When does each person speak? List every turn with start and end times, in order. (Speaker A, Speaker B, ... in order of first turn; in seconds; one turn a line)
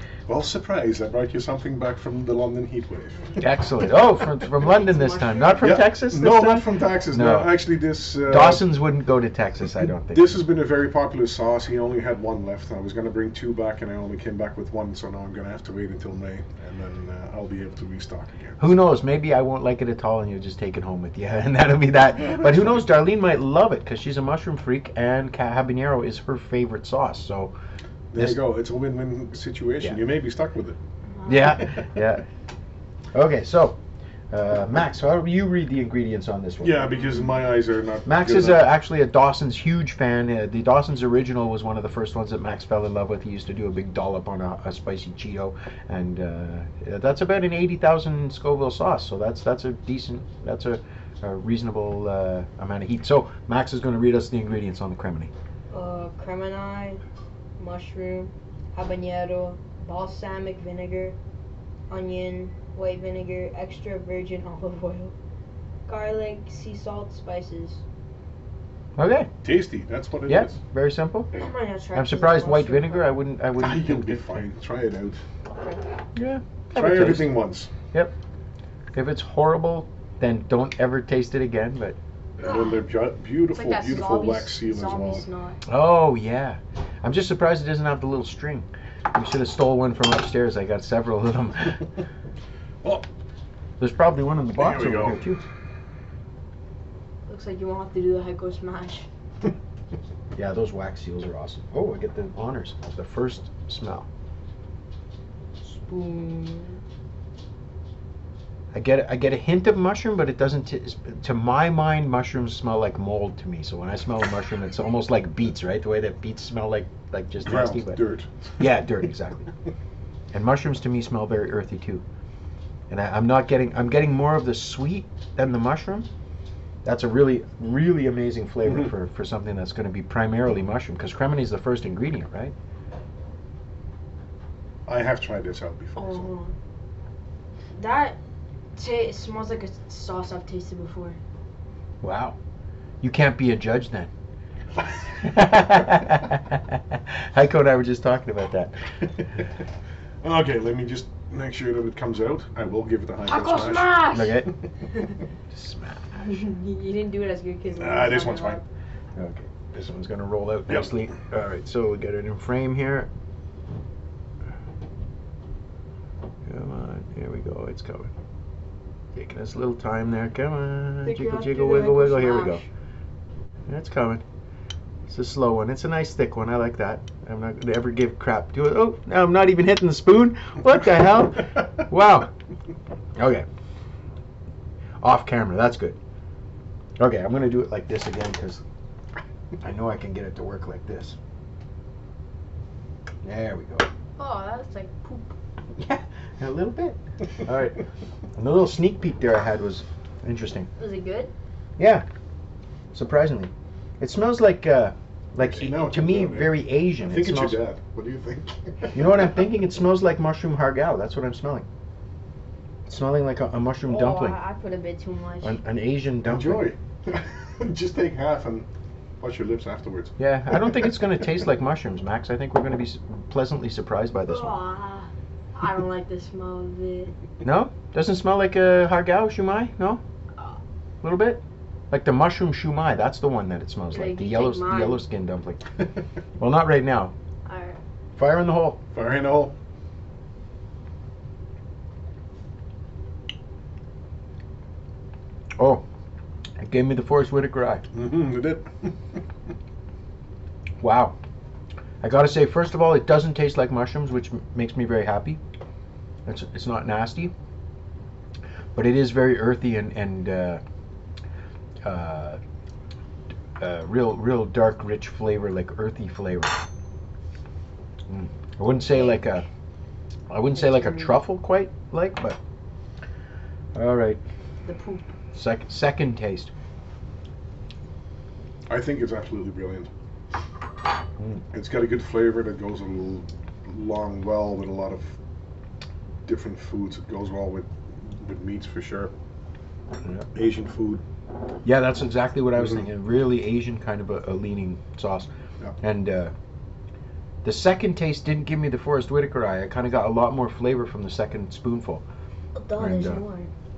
Speaker A: 0.3-3.4
Speaker B: 3.4-7.5
Speaker C: 4.5-5.7
Speaker A: 5.6-8.7
Speaker B: 8.2-10.4
Speaker A: 10.1-18.7
Speaker B: 18.6-27.5
Speaker A: 22.2-22.8
Speaker A: 28.1-30.8
Speaker C: 31.2-31.6
Speaker B: 31.2-32.2
Speaker B: 33.1-33.8
Speaker B: 34.3-36.8
Speaker A: 36.6-38.7
Speaker B: 38.0-55.3
Speaker C: 55.7-57.0
Speaker C: 57.6-61.1
Speaker C: 61.9-65.1
Speaker C: 65.8-67.8
Speaker B: 69.0-69.3
Speaker A: 69.4-70.6
Speaker B: 70.2-71.3
Speaker C: 71.3-73.2
Speaker B: 71.9-74.4
Speaker A: 73.6-75.2
Speaker C: 75.5-75.8
Speaker B: 76.1-77.3
Speaker A: 76.7-77.7
Speaker B: 78.9-82.0
Speaker A: 82.4-85.2
Speaker C: 83.5-85.6
Speaker B: 85.7-91.8
Speaker B: 93.8-95.4
Speaker A: 94.6-95.2
Speaker C: 97.3-99.0
Speaker B: 100.3-104.1
Speaker C: 105.6-106.8
Speaker B: 108.7-118.0
Speaker A: 117.4-118.7
Speaker B: 118.6-119.5
Speaker B: 120.3-122.0
Speaker B: 122.9-126.1
Speaker B: 126.8-132.5
Speaker A: 128.6-128.9
Speaker A: 134.9-136.3
Speaker C: 135.9-136.5
Speaker C: 137.7-138.2
Speaker C: 138.7-141.2
Speaker B: 142.0-142.3
Speaker B: 143.0-144.1
Speaker B: 145.2-149.0
Speaker A: 150.2-154.2
Speaker C: 153.2-154.4
Speaker B: 154.1-154.5
Speaker B: 155.5-156.4
Speaker C: 156.2-158.6
Speaker A: 157.8-158.6
Speaker B: 159.2-163.1
Speaker B: 166.4-168.1
Speaker B: 169.1-172.6
Speaker C: 171.0-172.7
Speaker B: 173.7-174.2
Speaker B: 175.1-182.3
Speaker B: 183.2-183.4
Speaker B: 185.0-186.0
Speaker B: 187.0-188.6
Speaker B: 189.6-191.2
Speaker B: 193.2-193.9
Speaker C: 194.2-195.3
Speaker B: 195.8-197.8
Speaker B: 198.3-200.7
Speaker C: 200.8-201.3
Speaker B: 201.8-202.0
Speaker B: 202.9-207.6
Speaker A: 205.4-209.2
Speaker B: 208.9-211.6
Speaker B: 212.9-214.4
Speaker C: 213.8-215.6
Speaker B: 215.4-216.7
Speaker A: 216.2-218.7
Speaker A: 219.2-220.7
Speaker B: 220.2-224.6
Speaker C: 224.3-227.1
Speaker B: 227.4-230.0
Speaker B: 231.0-235.8
Speaker C: 233.9-235.0
Speaker B: 236.4-237.1
Speaker C: 237.4-237.8
Speaker B: 238.2-238.8
Speaker A: 238.9-239.5
Speaker B: 245.6-245.8
Speaker B: 246.6-247.8
Speaker A: 247.9-249.2
Speaker B: 250.8-251.2
Speaker B: 252.0-255.4
Speaker B: 256.2-257.3
Speaker B: 258.7-260.6
Speaker B: 261.8-262.4
Speaker B: 263.6-266.6
Speaker B: 268.1-269.4
Speaker C: 268.9-269.2
Speaker B: 270.3-272.4
Speaker C: 270.5-271.1
Speaker B: 273.7-274.2
Speaker C: 274.6-275.1
Speaker B: 275.3-276.5
Speaker A: 278.7-279.9
Speaker A: 281.5-285.1
Speaker A: 286.2-289.1
Speaker A: 290.3-291.0
Speaker B: 291.6-295.3
Speaker B: 295.8-296.3
Speaker B: 297.4-302.0
Speaker C: 302.6-303.5
Speaker B: 302.8-303.2